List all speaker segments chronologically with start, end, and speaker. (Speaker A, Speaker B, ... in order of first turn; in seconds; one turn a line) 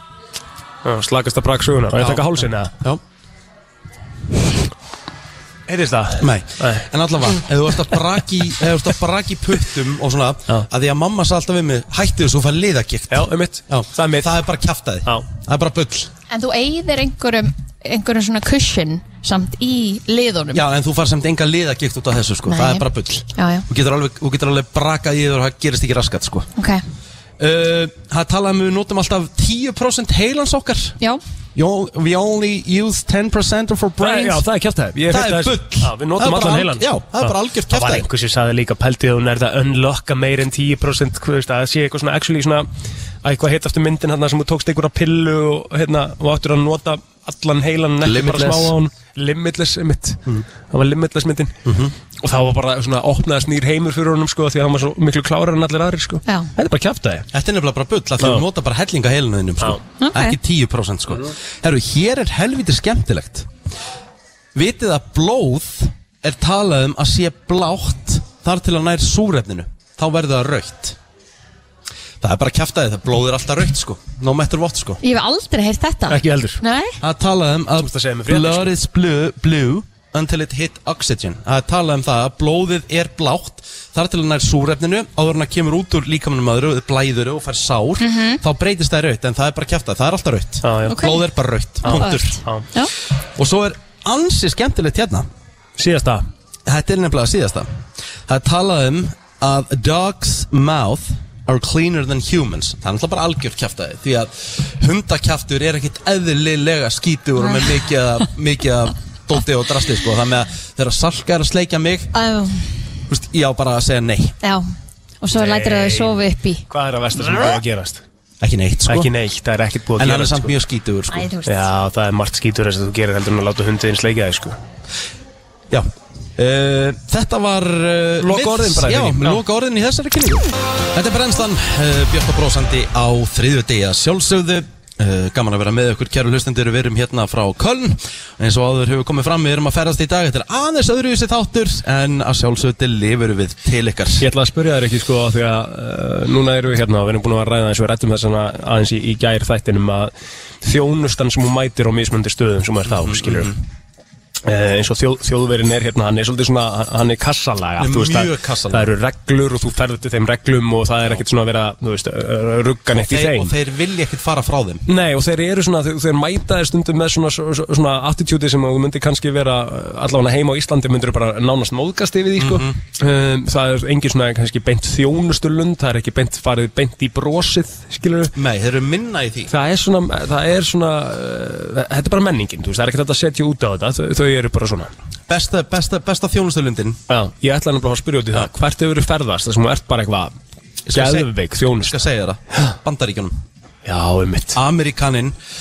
Speaker A: 0.8-2.7
Speaker B: 2.0-3.0
Speaker A: 5.7-6.9
Speaker B: 6.2-16.1
Speaker A: 13.1-14.3
Speaker C: 16.3-20.6
Speaker B: 20.5-26.5
Speaker C: 22.5-23.6
Speaker C: 26.6-26.8
Speaker B: 27.4-31.0
Speaker B: 31.6-34.4
Speaker A: 34.0-42.7
Speaker B: 35.1-38.1
Speaker A: 43.2-51.6
Speaker B: 48.0-48.7
Speaker B: 51.6-51.9
Speaker A: 52.2-57.3
Speaker B: 57.3-63.5
Speaker C: 60.0-60.4
Speaker B: 64.5-71.0
Speaker B: 72.2-75.0
Speaker C: 75.0-77.0
Speaker A: 76.1-76.6
Speaker B: 77.0-92.4
Speaker A: 77.8-78.7
Speaker C: 88.0-88.4
Speaker A: 90.6-91.1
Speaker C: 90.9-91.2
Speaker C: 91.8-92.9
Speaker A: 91.8-92.7
Speaker B: 93.4-95.3
Speaker A: 95.8-96.2
Speaker B: 96.7-97.7
Speaker B: 98.3-112.1
Speaker C: 112.1-112.8
Speaker B: 113.1-114.4
Speaker C: 114.4-114.7
Speaker C: 115.2-116.7
Speaker A: 115.3-118.0
Speaker C: 117.2-117.5
Speaker B: 118.4-119.1
Speaker A: 118.9-120.6
Speaker B: 120.0-121.3
Speaker C: 121.1-121.7
Speaker A: 121.5-124.6
Speaker B: 125.7-144.3
Speaker A: 128.2-129.4
Speaker A: 144.2-153.5
Speaker B: 153.0-153.6
Speaker A: 154.4-163.5
Speaker B: 157.8-158.9
Speaker B: 162.9-164.8
Speaker A: 164.9-178.3
Speaker B: 172.4-172.8
Speaker B: 178.3-179.5
Speaker A: 179.5-184.9
Speaker B: 185.3-187.0
Speaker A: 187.1-190.3
Speaker B: 190.9-193.4
Speaker A: 190.9-192.0
Speaker A: 193.8-194.6
Speaker B: 194.6-195.4